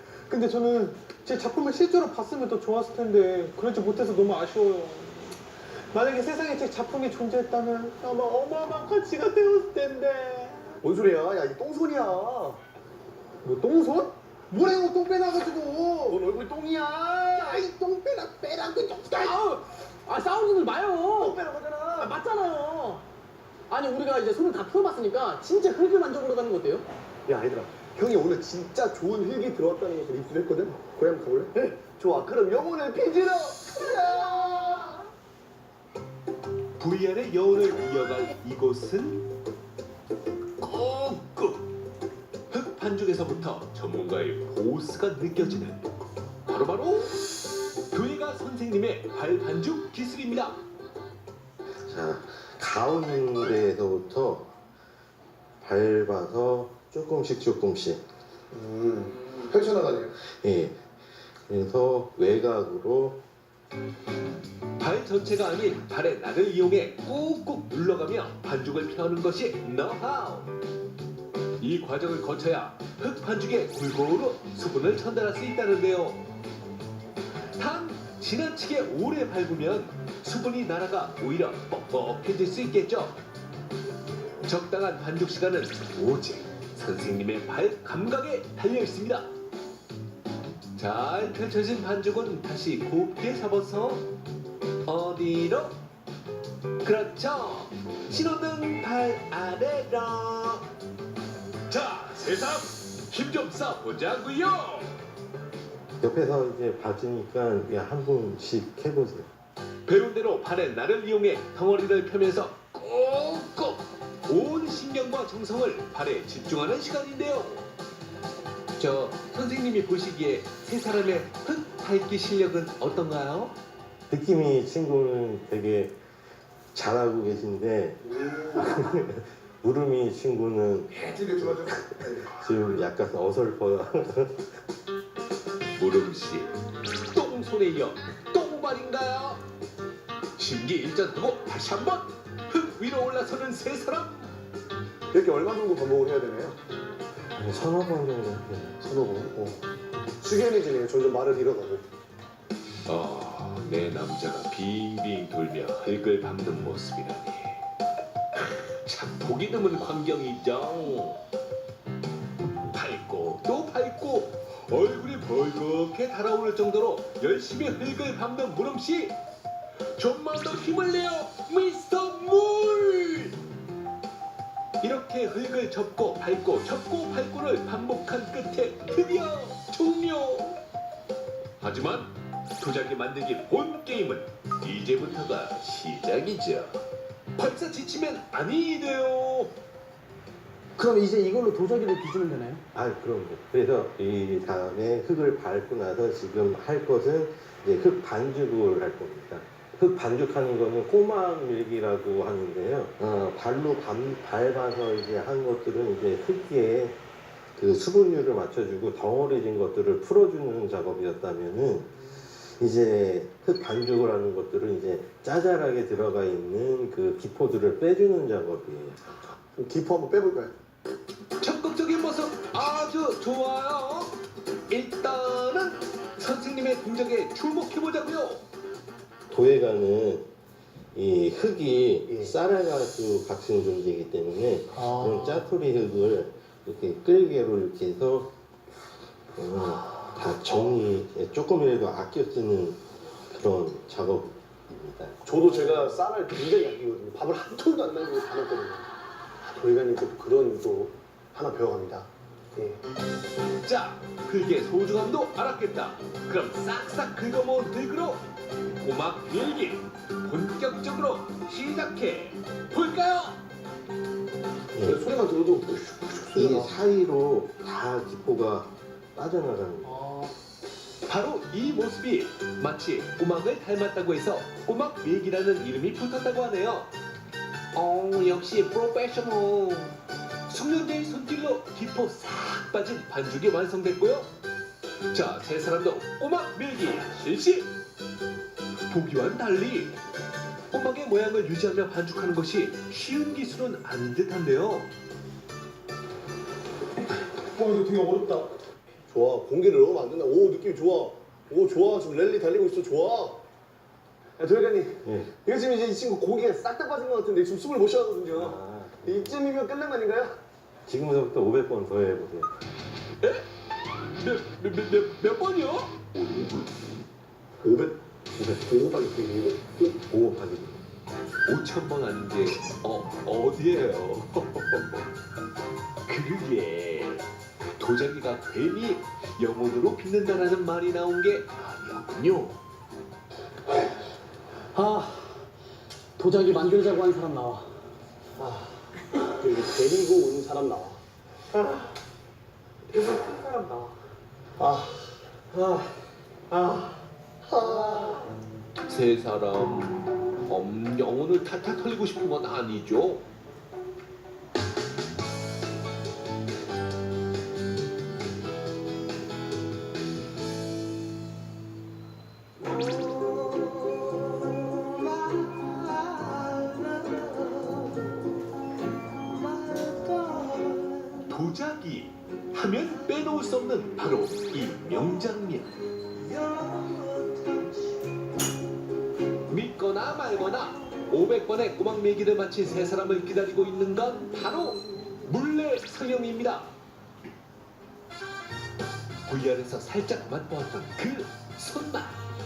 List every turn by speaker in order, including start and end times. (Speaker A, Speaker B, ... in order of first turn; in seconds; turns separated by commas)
Speaker A: 0.3-5.1, Speaker A: 5.9-10.8, Speaker B: 10.8-12.6, Speaker A: 13.4-14.0, Speaker C: 13.5-15.9, Speaker A: 14.6-16.1, Speaker B: 16.1-17.6, Speaker C: 17.4-21.4, Speaker B: 21.1-22.1, Speaker C: 22.0-23.0, Speaker C: 23.7-26.9, Speaker B: 27.3-35.0, Speaker D: 36.8-39.3, Speaker D: 40.6-41.7, Speaker D: 42.5-47.2, Speaker D: 47.9-50.6, Speaker E: 51.8-54.5, Speaker E: 55.6-58.0, Speaker B: 58.5-60.1, Speaker E: 60.2-60.8, Speaker E: 61.5-63.2, Speaker D: 64.8-70.5, Speaker D: 71.6-76.2, Speaker D: 77.5-83.2, Speaker D: 84.4-89.3, Speaker D: 90.8-94.0, Speaker D: 94.9-95.8, Speaker D: 96.8-100.7, Speaker D: 101.7-105.0, Speaker E: 106.0-109.3, Speaker D: 109.9-117.7, Speaker D: 118.8-123.5, Speaker E: 124.1-126.0, Speaker E: 126.7-134.5, Speaker D: 135.7-136.5, Speaker D: 137.1-139.4, Speaker D: 140.4-144.3, Speaker B: 145.1-146.6, Speaker E: 147.3-148.8, Speaker B: 148.8-149.6, Speaker B: 150.2-151.8, Speaker D: 152.8-157.7, Speaker D: 158.3-161.2, Speaker D: 162.7-169.2, Speaker D: 169.9-173.4, Speaker D: 174.8-180.6, Speaker D: 181.6-186.8, Speaker D: 187.3-189.5, Speaker C: 190.8-192.6, Speaker E: 192.7-207.0, Speaker E: 207.6-211.9, Speaker E: 212.6-219.0, Speaker B: 219.6-220.5, Speaker D: 221.4-228.4, Speaker E: 229.3-230.3, Speaker E: 230.9-238.3, Speaker E: 239.3-245.2, Speaker B: 245.2-248.8, Speaker B: 249.4-252.8, Speaker D: 253.6-258.2, Speaker D: 258.8-263.4, Speaker E: 264.8-265.0, Speaker B: 264.9-266.8, Speaker E: 266.4-270.1, Speaker D: 271.1-276.9, Speaker D: 277.7-284.3, Speaker D: 285.1-287.7, Speaker D: 288.9-290.0, Speaker D: 290.7-294.9, Speaker B: 297.6-298.5, Speaker B: 299.1-303.4, Speaker B: 304.4-310.4, Speaker E: 305.1-305.3, Speaker E: 308.4-309.3, Speaker E: 310.9-312.5, Speaker D: 314.2-316.2, Speaker B: 317.6-319.9, Speaker E: 320.0-320.8, Speaker D: 321.5-325.0, Speaker D: 326.1-327.3, Speaker D: 327.8-332.6, Speaker C: 334.7-335.5, Speaker C: 336.2-337.7, Speaker B: 338.4-341.0, Speaker A: 342.9-343.8, Speaker B: 344.6-348.4, Speaker D: 348.8-353.2, Speaker D: 371.2-375.8, Speaker D: 379.5-386.7, Speaker D: 389.2-392.2